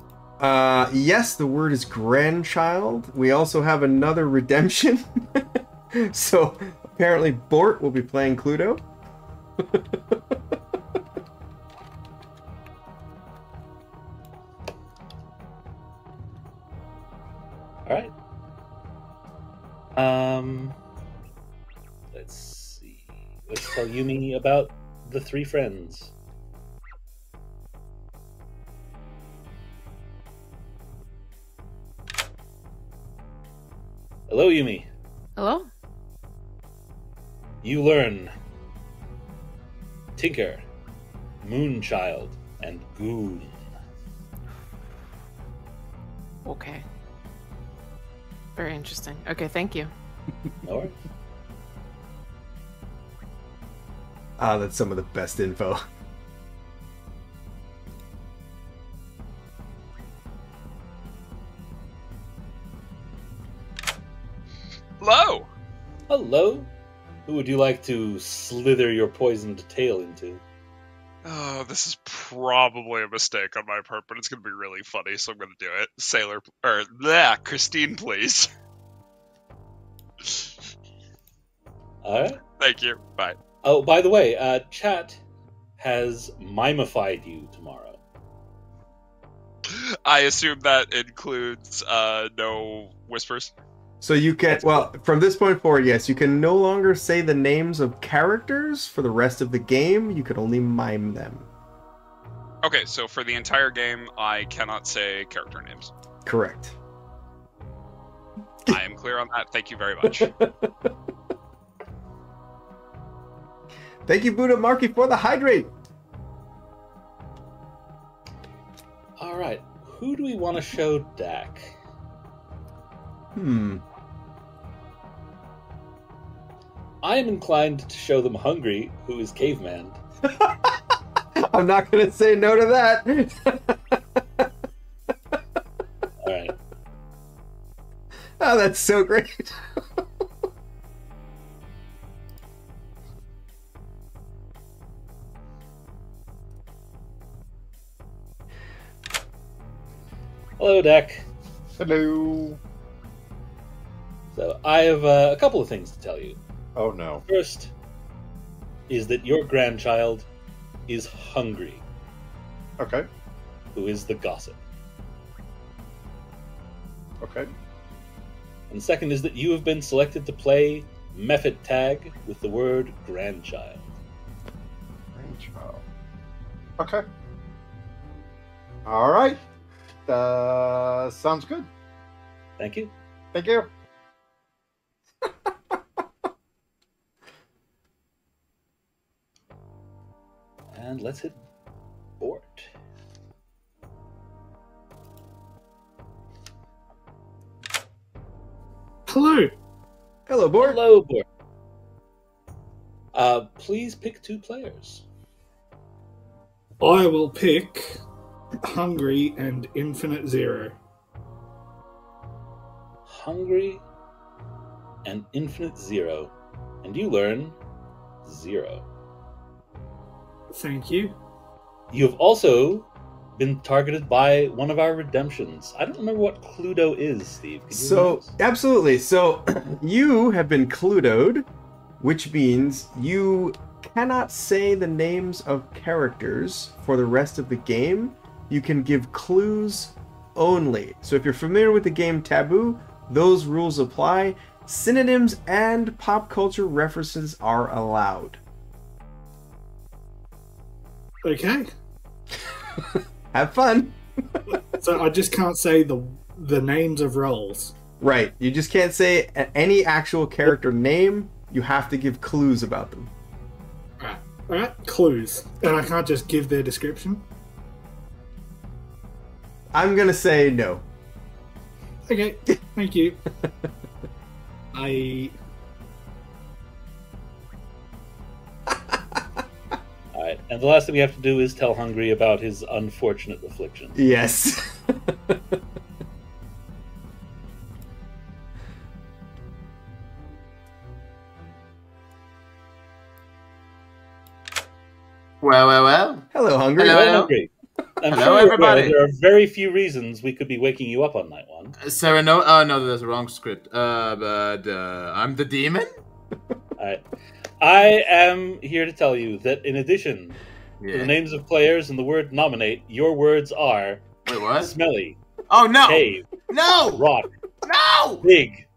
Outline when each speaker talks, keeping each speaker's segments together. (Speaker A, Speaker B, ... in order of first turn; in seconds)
Speaker A: 0.4-8.8, 9.6-10.2, 54.4-55.8, 94.0-101.5, 106.2-106.8, 110.0-110.9, 114.0-115.7, 123.3-123.8, 130.3-130.8, 131.4-133.8, 138.4-139.6, 200.3-200.8, 227.7-231.4, 232.0-248.4, 253.3-254.0, 258.0-263.1, 269.7-270.8, 278.9-279.2, 283.9-285.4, 296.3-297.1
Speaker B: 17.9-18.1, 19.9-20.8, 22.1-26.1, 34.3-34.9, 37.6-38.3, 40.1-40.6, 41.4-43.6, 50.6-51.0, 66.1-66.7, 67.2-70.4, 82.0-82.4, 83.6-85.2, 85.8-88.0, 119.2-121.7, 127.0-130.0, 136.2-136.6, 150.6-151.2, 154.3-156.4, 157.2-157.7, 158.9-160.2, 160.9-161.8, 163.7-164.6, 168.7-173.9, 182.6-182.9, 190.7-191.4, 192.2-192.7, 200.6-201.2, 203.1-205.0, 213.1-213.8, 215.0-217.6, 218.2-218.8, 221.9-228.3, 280.1-283.9, 296.9-301.8, 306.8-307.0, 307.6-310.4, 310.9-315.2, 315.8-316.2, 316.9-317.3, 318.2-318.6
Speaker C: 35.4-35.7, 46.4-46.8, 48.5-49.9
Speaker D: 65.0-65.5, 71.2-78.5, 82.6-83.4, 89.7-93.5, 102.6-105.9, 108.7-110.3
Speaker E: 151.8-152.6, 156.7-157.2, 162.8-163.1, 167.2-167.5, 175.1-175.8, 176.8-177.0, 178.8-179.4, 180.1-181.7, 183.3-183.7
Speaker F: 199.1-199.6, 206.8-208.0, 208.7-210.8, 220.5-221.1, 251.2-251.7, 254.8-257.7, 264.0-267.2, 272.1-273.2, 274.7-275.3
Speaker G: 295.4-296.3, 296.8-297.3, 298.1-299.0, 301.8-305.9, 310.8-311.1, 314.2-314.7, 315.5-317.0, 317.6-318.2